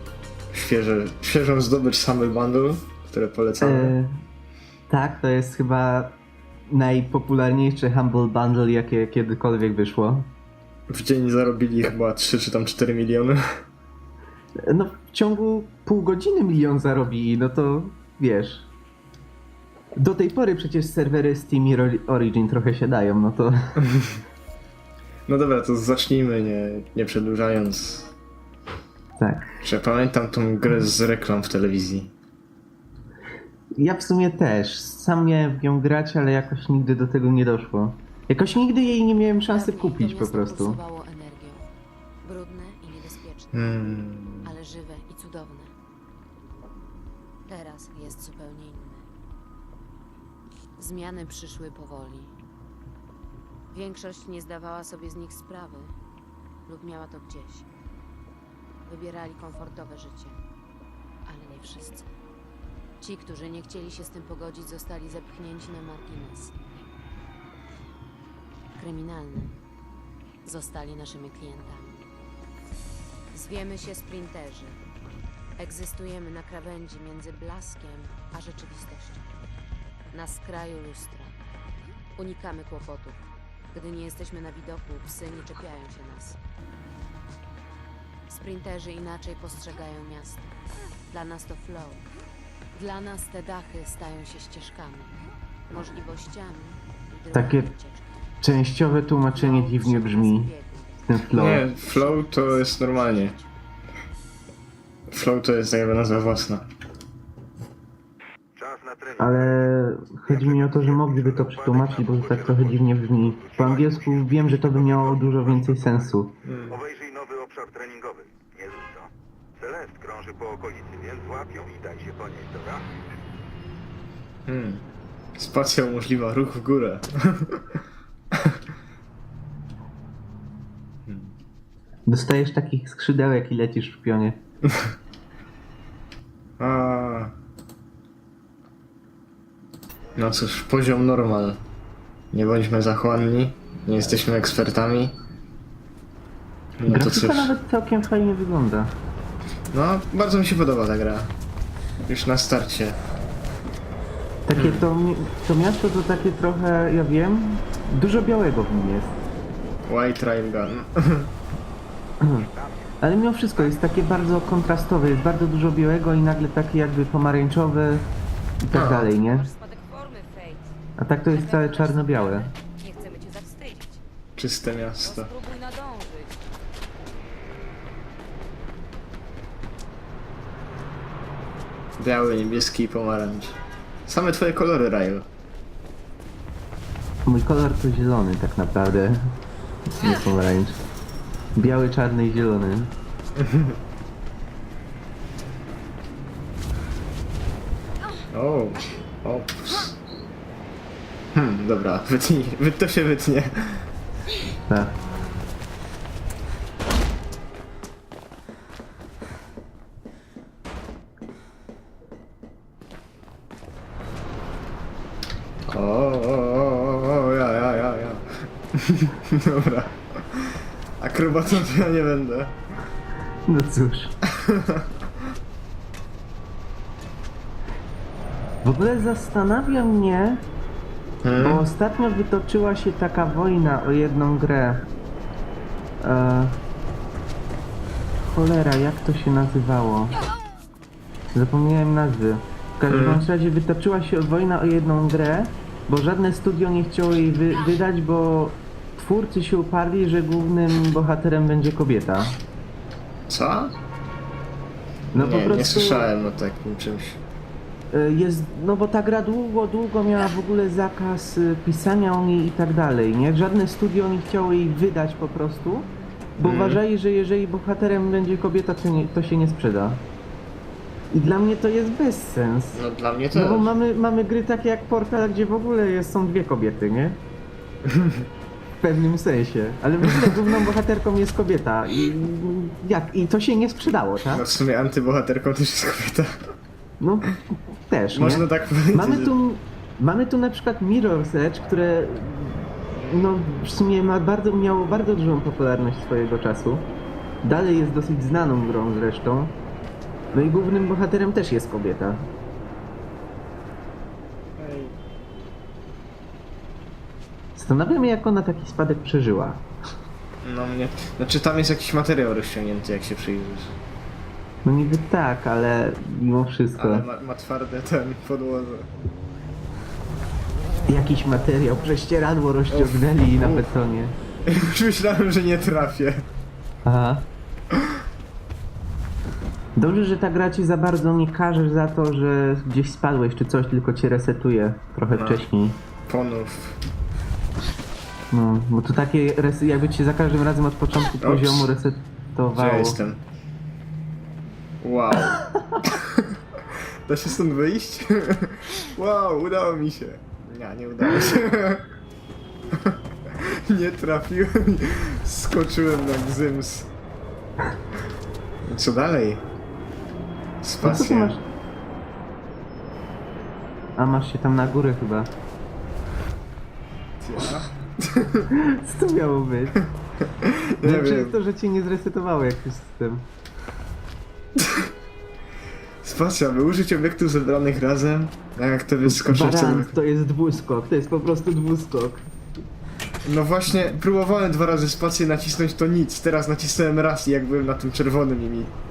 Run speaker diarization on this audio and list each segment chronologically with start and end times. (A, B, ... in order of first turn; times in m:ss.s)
0:00.5-0:04.0 A
0:03.6-0:04.1 B
0:04.9-0:10.3 B
0:10.9-0:13.4 A
0:14.6-0:18.7 B
0:20.0-0:23.8 B
0:23.8-0:24.2 A
0:25.3-0:28.1 A
0:29.2-0:29.5 B
0:29.6-0:32.1 A
0:33.8-0:40.8 B
0:39.5-0:41.7 C
0:42.2-0:43.7 C
0:43.5-0:44.6 A
0:44.4-0:45.7 C
0:47.5-0:49.1 C
0:50.8-0:52.4 C
0:53.7-0:56.0 C
0:56.7-0:57.7 C
0:58.8-1:00.4 C
1:01.3-1:02.2 C
1:03.0-1:06.6 C
1:08.8-1:09.6 C
1:10.4-1:12.1 C
1:13.3-1:14.8 C
1:15.6-1:19.3 C
1:20.1-1:21.4 C
1:22.2-1:23.2 C
1:23.7-1:26.4 C
1:28.3-1:30.6 C
1:31.1-1:32.0 C
1:32.7-1:38.4 C
1:37.3-1:37.7 B
1:38.4-1:40.5 B
1:39.3-1:43.5 C
1:41.0-1:41.7 B
1:41.3-1:43.4 A
1:45.1-1:46.7 A
1:48.6-1:49.7 D
1:49.2-1:56.3 B
1:50.3-1:56.2 D
1:56.4-1:56.8 A
1:56.7-2:02.9 D
2:04.5-2:04.8 A
2:05.3-2:07.8 A
2:08.3-2:08.6 A
2:11.1-2:11.3 A
2:12.1-2:14.4 B
2:14.7-2:14.9 A
2:16.6-2:17.3 A
2:20.2-2:21.6 A
2:22.3-2:25.2 A
2:26.8-2:27.5 A
2:26.9-2:29.0 B
2:29.7-2:31.3 A
2:32.0-2:33.0 A
2:34.5-2:39.2 B
2:34.6-2:34.9 A
2:39.8-2:41.3 A
2:42.2-2:42.5 B
2:42.4-2:43.0 D
2:43.0-2:48.1 B
2:43.6-2:43.8 D
2:48.6-2:49.5 B
2:48.7-2:49.1 A
2:49.1-2:50.8 E
2:51.0-2:52.5 B
2:51.3-2:54.0 E
2:54.4-2:55.3 A
2:55.0-2:56.4 E
3:02.0-3:05.3 A
3:07.2-3:10.8 B
3:11.6-3:12.9 B
3:13.4-3:13.8 A
3:18.3-3:20.0 A
3:21.3-3:23.9 A
3:24.7-3:25.0 B
3:35.7-3:42.6 A
3:43.5-3:44.1 B
3:44.2-3:45.0 A
3:48.6-3:50.4 B
3:51.2-3:51.7 A
3:51.4-3:54.9 B
3:56.0-3:56.6 B
3:58.2-4:00.1 B
4:01.3-4:12.4 B
4:02.9-4:03.2 A
4:13.3-4:13.7 A
4:15.1-4:16.1 B
4:15.1-4:17.2 A
4:17.9-4:30.0 B
4:26.4-4:26.8 A
4:31.1-4:37.2 B
4:32.7-4:33.7 A
4:37.8-4:38.3 A
4:38.8-4:44.4 B
4:44.3-4:46.5 A
4:47.0-4:56.9 B
4:48.1-4:49.4 A
4:57.4-4:59.6 B
5:00.3-5:02.3 B
5:04.6-5:05.0 A
5:07.6-5:09.7 B
5:10.4-5:13.8 A
5:14.6-5:17.1 B
5:16.8-5:18.9 A
5:20.9-5:24.1 B
5:22.7-5:23.7 A
5:24.4-5:26.2 A
5:26.8-5:27.3 B
5:27.7-5:28.0 A
5:29.8-5:35.8 B
5:35.1-5:35.4 A
5:36.1-5:36.8 A
5:38.3-5:43.0 B
5:41.2-5:41.7 A
5:42.5-5:43.2 A
5:44.8-5:51.8 A
5:52.7-5:56.9 A
5:58.6-5:59.4 A
6:00.6-6:01.4 A
6:00.8-6:01.4 B
6:04.0-6:05.3 B
6:07.2-6:08.5 A
6:08.5-6:09.8 B
6:10.2-6:11.4 A
6:10.8-6:13.3 B
6:14.6-6:14.9 A
6:16.0-6:20.0 A
6:19.1-6:22.3 B
6:23.2-6:28.7 A